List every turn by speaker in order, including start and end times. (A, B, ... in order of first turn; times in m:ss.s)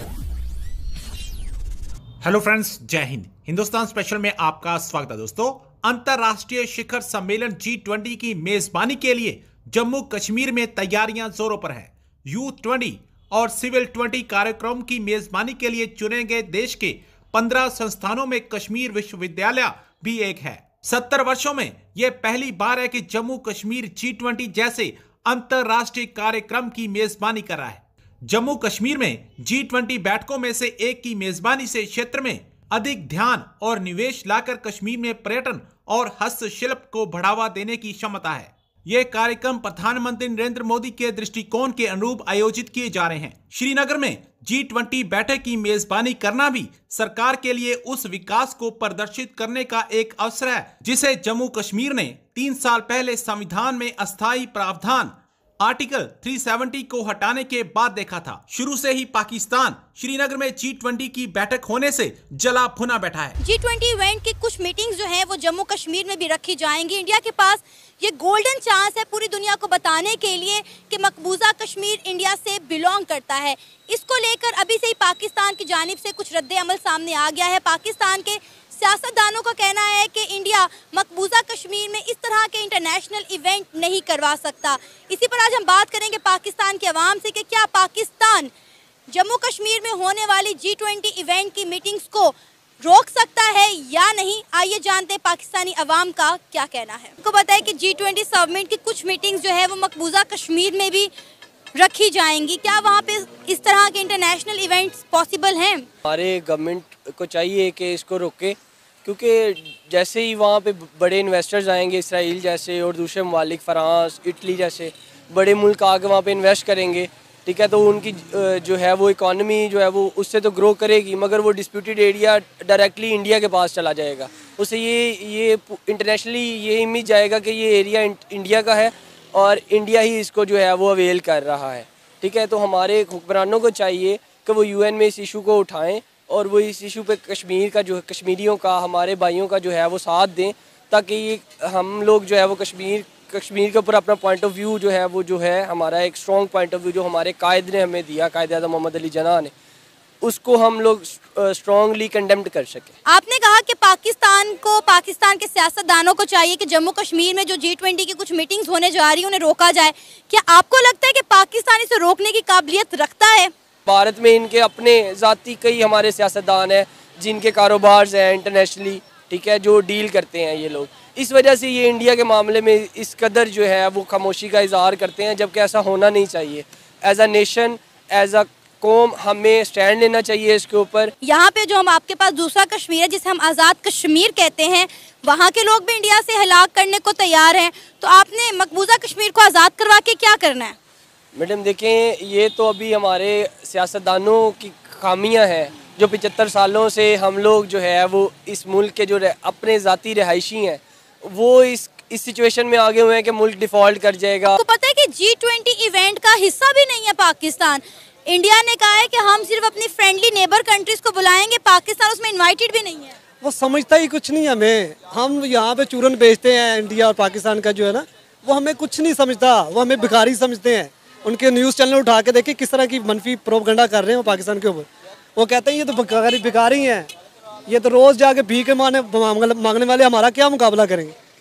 0:02.2-1:03.4 A
1:03.4-1:28.5 B
1:29.1-1:41.1 B
1:41.8-1:45.8 B
1:46.0-2:29.5 C
2:30.2-2:32.9 C
2:33.1-2:43.5 B
2:43.8-3:01.1 C
3:01.2-3:10.7 B
3:11.3-3:24.6 C
3:24.5-3:33.1 B
3:33.4-3:47.1 D
3:47.7-3:51.1 D